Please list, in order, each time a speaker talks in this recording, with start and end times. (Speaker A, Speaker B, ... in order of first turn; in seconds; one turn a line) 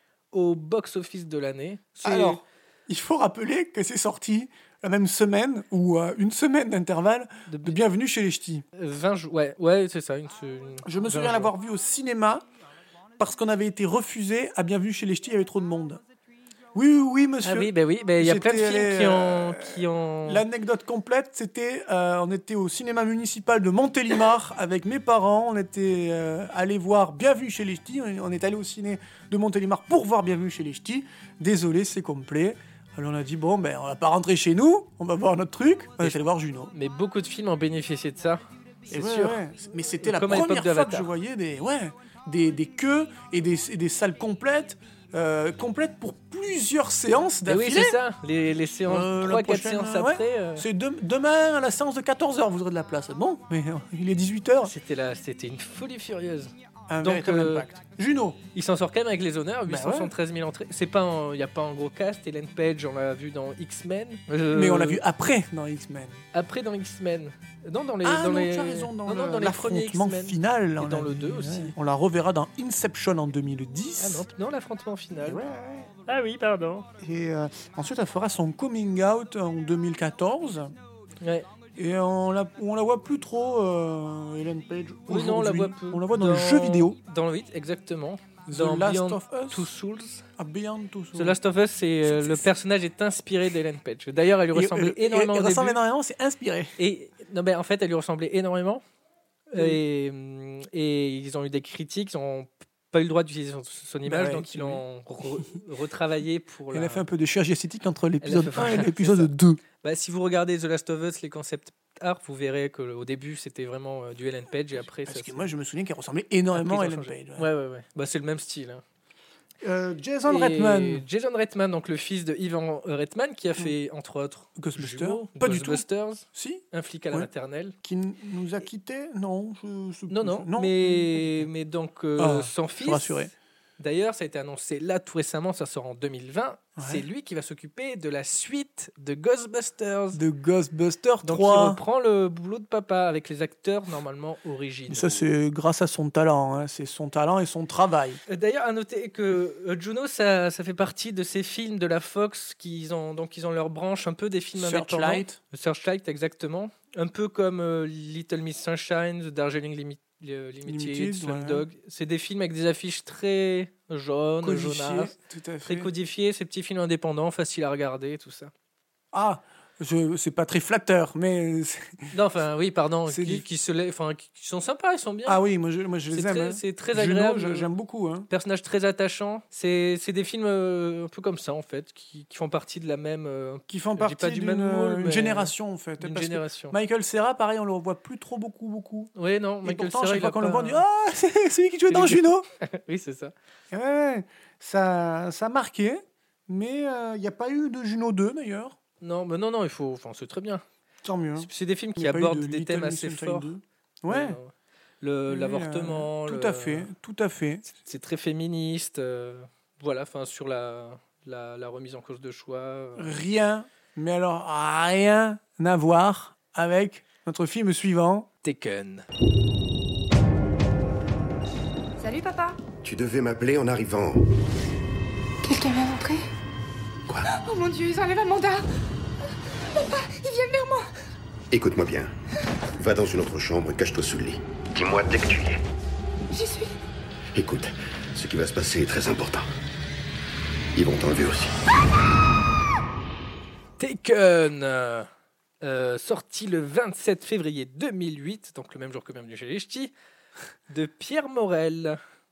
Speaker A: 0.3-2.4
Speaker B: 2.0-8.6
Speaker A: 7.5-7.8
Speaker A: 8.8-11.5
Speaker B: 10.8-12.4
Speaker B: 13.2-16.0
Speaker B: 16.7-36.7
Speaker A: 17.4-20.4
Speaker A: 36.7-39.4
Speaker B: 38.9-48.0
Speaker A: 40.0-41.1
Speaker A: 47.5-50.6
Speaker B: 48.9-54.7
Speaker A: 54.6-57.7
Speaker B: 56.9-58.4
Speaker A: 58.5-65.0
Speaker B: 59.7-60.1
Speaker B: 64.5-66.2
Speaker A: 66.3-71.7
Speaker B: 68.0-74.2
Speaker A: 74.0-75.4
Speaker B: 75.2-75.9
Speaker A: 76.1-76.9
Speaker B: 77.0-80.7
Speaker A: 81.2-81.5
Speaker B: 81.8-87.0
Speaker A: 85.1-90.2
Speaker B: 88.5-89.7
Speaker B: 90.4-91.4
Speaker A: 91.2-95.8
Speaker B: 92.0-92.4
Speaker B: 94.5-96.8
Speaker A: 96.8-98.8
Speaker A: 99.5-107.0
Speaker B: 104.0-104.8
Speaker B: 106.7-109.6
Speaker A: 108.2-109.3
Speaker A: 109.8-115.5
Speaker B: 115.0-117.5
Speaker A: 116.5-118.8
Speaker B: 119.6-121.0
Speaker A: 120.3-127.7
Speaker B: 124.6-127.3
Speaker B: 127.8-131.5
Speaker A: 130.1-140.2
Speaker B: 132.2-133.3
Speaker B: 136.8-137.0
Speaker B: 140.1-141.8
Speaker A: 141.2-145.3
Speaker B: 144.9-148.2
Speaker A: 148.3-165.1
Speaker B: 154.6-155.4
Speaker B: 160.7-161.7
Speaker B: 164.4-165.9
Speaker A: 165.7-168.5
Speaker B: 169.1-172.1
Speaker A: 172.1-175.4
Speaker B: 173.1-173.4
Speaker B: 175.2-178.3
Speaker A: 176.1-177.7
Speaker A: 178.3-186.8
Speaker B: 183.7-189.1
Speaker A: 189.2-190.8
Speaker B: 189.6-192.4
Speaker A: 191.9-193.3
Speaker B: 193.7-198.8
Speaker A: 199.0-200.6
Speaker B: 201.0-204.4
Speaker A: 201.4-203.5
Speaker A: 204.1-206.9
Speaker B: 205.3-207.6
Speaker A: 207.7-213.2
Speaker B: 213.0-218.3
Speaker A: 218.4-219.0
Speaker C: 222.0-222.6
Speaker D: 222.8-224.2
Speaker C: 225.5-226.2
Speaker C: 227.3-228.6
Speaker C: 229.9-230.8
Speaker D: 231.5-232.1
Speaker D: 232.8-235.6
Speaker C: 236.3-236.7
Speaker D: 237.3-239.5
Speaker D: 240.7-241.5
Speaker A: 243.8-245.1
Speaker A: 245.6-249.9
Speaker A: 250.7-252.0